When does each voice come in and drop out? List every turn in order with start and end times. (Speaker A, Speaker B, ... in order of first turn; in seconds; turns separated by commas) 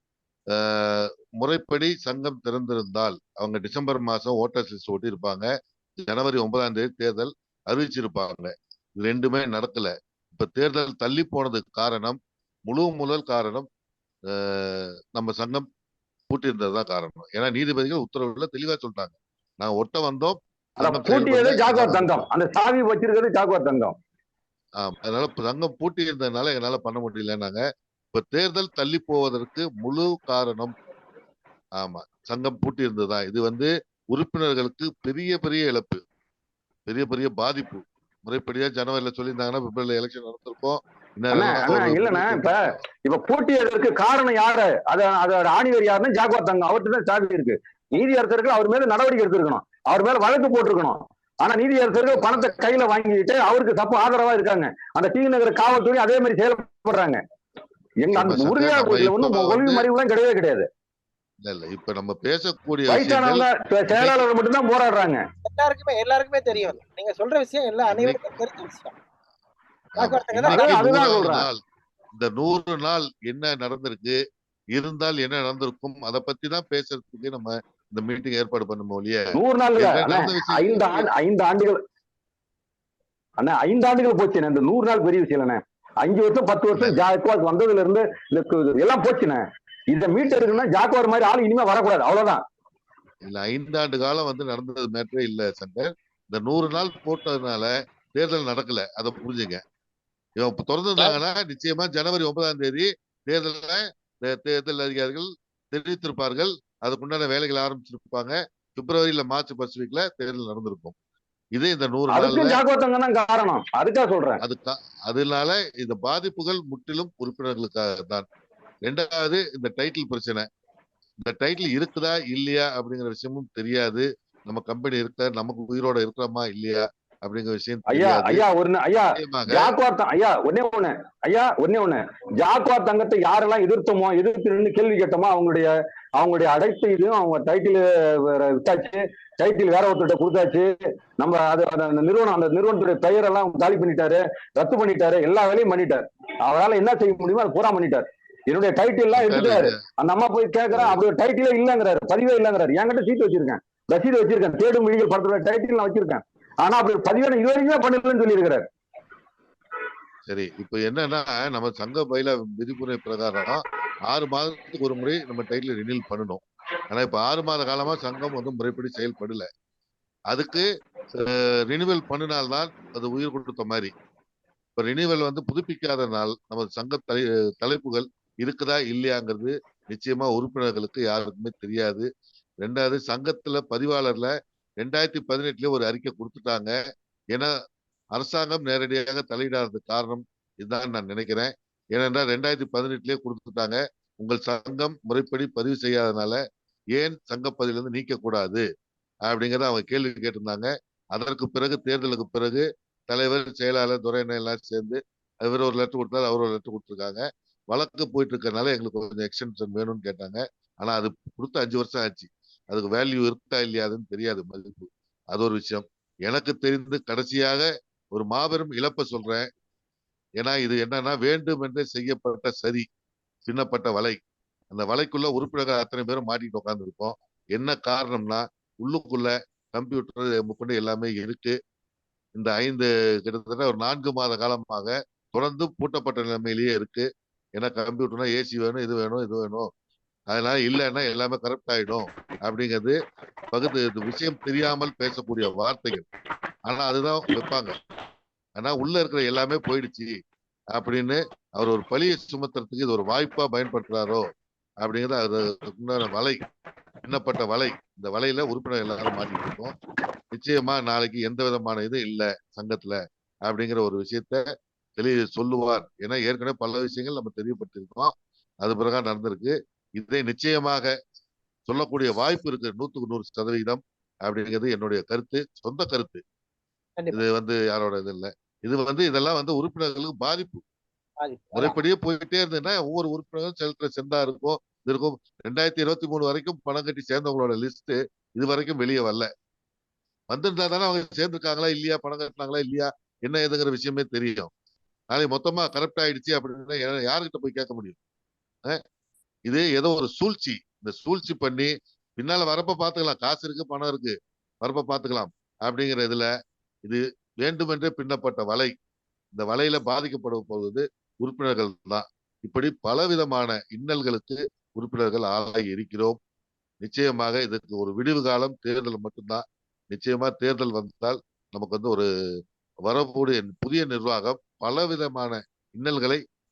Speaker A: 0.5-13.7, Speaker A: 14.3-15.7, Speaker A: 16.3-22.2, Speaker B: 20.8-24.0, Speaker A: 24.8-30.8, Speaker A: 31.8-36.0, Speaker A: 36.9-42.8, Speaker B: 41.3-57.2, Speaker A: 52.0-52.5, Speaker B: 58.0-60.7, Speaker A: 58.1-59.9, Speaker A: 61.4-64.2, Speaker B: 62.9-65.2, Speaker C: 65.5-69.0, Speaker A: 67.9-68.2, Speaker A: 70.0-71.6, Speaker C: 70.0-70.7, Speaker B: 70.5-71.5, Speaker A: 72.1-74.2, Speaker A: 74.7-81.1, Speaker B: 79.3-81.8, Speaker B: 83.4-92.4, Speaker A: 93.2-99.6, Speaker A: 100.4-111.0, Speaker A: 111.5-112.6, Speaker B: 112.1-114.4, Speaker A: 114.4-118.3, Speaker A: 118.8-120.5, Speaker A: 121.2-128.4, Speaker B: 127.9-158.7, Speaker A: 129.1-129.7, Speaker A: 149.2-149.8, Speaker A: 150.7-151.0, Speaker A: 160.3-169.5, Speaker A: 170.3-173.9, Speaker A: 174.8-182.1, Speaker A: 182.6-186.8, Speaker A: 188.1-196.4, Speaker A: 196.9-198.7, Speaker A: 199.2-219.5, Speaker A: 220.4-222.9, Speaker A: 223.5-224.2, Speaker A: 224.7-231.6, Speaker A: 232.3-239.7, Speaker A: 240.3-243.0, Speaker A: 243.5-246.1, Speaker A: 246.7-247.7, Speaker A: 248.6-250.2, Speaker A: 250.7-254.3, Speaker A: 254.8-256.4, Speaker A: 257.0-259.7, Speaker A: 260.3-270.9, Speaker A: 271.7-276.2, Speaker C: 277.0-277.2, Speaker A: 277.1-280.6, Speaker C: 281.2-281.8, Speaker A: 281.6-289.3, Speaker A: 290.3-294.5, Speaker A: 295.1-298.0, Speaker A: 299.5-306.3, Speaker A: 306.9-308.7, Speaker A: 309.3-316.2, Speaker A: 316.8-322.1, Speaker A: 322.9-326.2